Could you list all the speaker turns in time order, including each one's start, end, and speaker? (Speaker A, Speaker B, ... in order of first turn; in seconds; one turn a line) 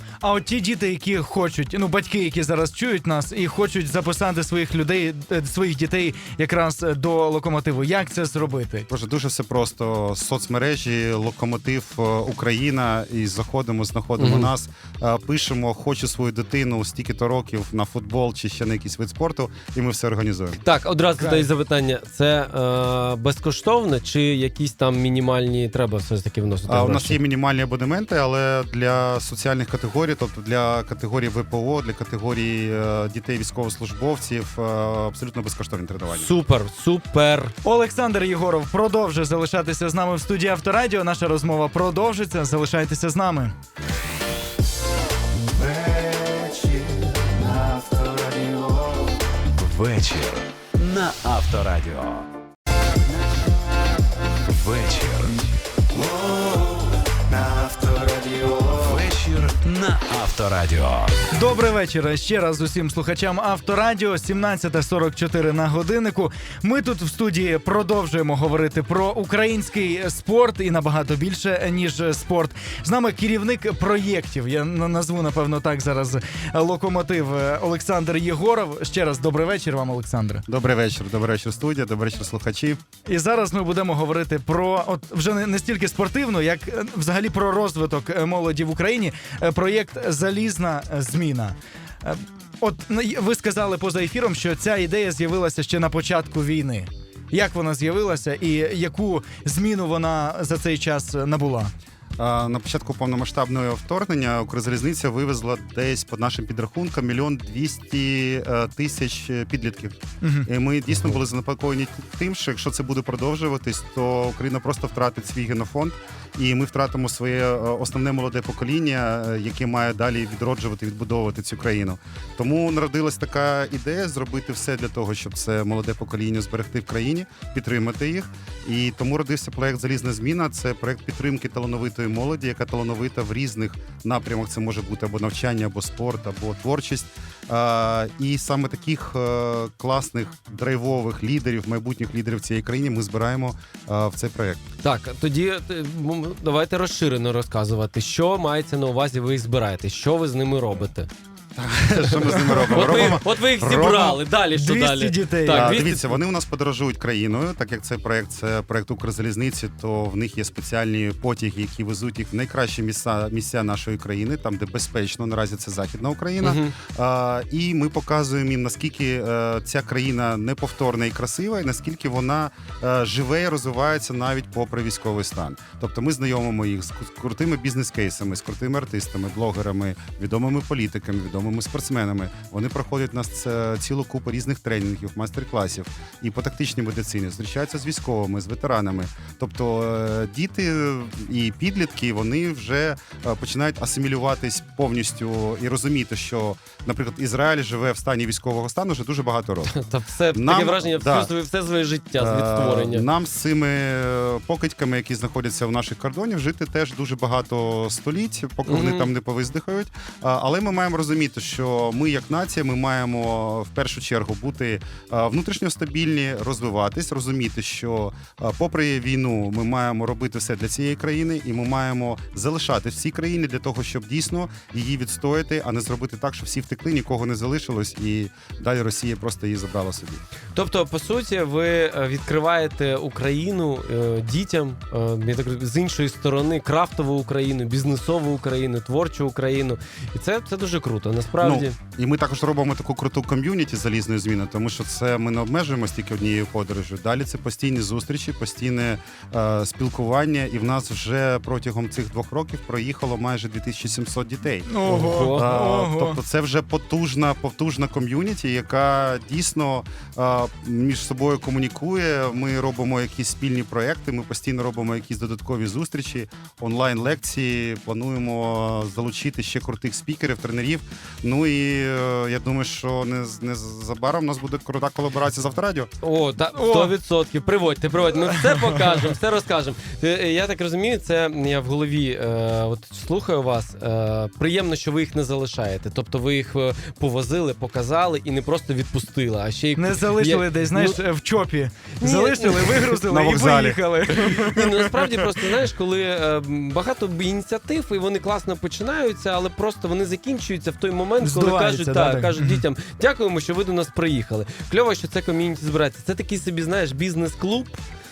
Speaker A: 0.2-8.9
Speaker B: 8.9-20.6
Speaker C: 14.2-14.5
Speaker C: 20.6-27.2
Speaker B: 26.7-36.3
Speaker C: 36.1-37.5
Speaker A: 37.6-43.5
Speaker D: 45.7-48.2
Speaker D: 49.6-52.3
Speaker D: 54.5-55.5
Speaker D: 56.1-56.6
Speaker D: 57.3-57.9
Speaker D: 58.5-61.2
Speaker A: 61.3-80.4
Speaker B: 80.5-82.8
Speaker A: 83.0-101.7
Speaker B: 102.2-144.6
Speaker A: 110.2-110.5
Speaker C: 144.8-151.1
Speaker B: 151.6-154.2
Speaker C: 152.7-156.2
Speaker A: 154.5-155.8
Speaker B: 155.5-199.7
Speaker C: 166.4-166.7
Speaker C: 199.7-203.1
Speaker B: 200.3-201.3
Speaker B: 202.2-230.2
Speaker C: 208.7-209.1
Speaker C: 230.5-241.8
Speaker B: 241.4-275.9
Speaker A: 254.7-256.2
Speaker C: 254.8-255.4
Speaker C: 276.0-291.0
Speaker A: 276.5-276.9
Speaker A: 289.7-294.6
Speaker C: 292.0-293.1
Speaker B: 293.1-294.7
Speaker C: 294.1-307.8
Speaker A: 301.2-302.6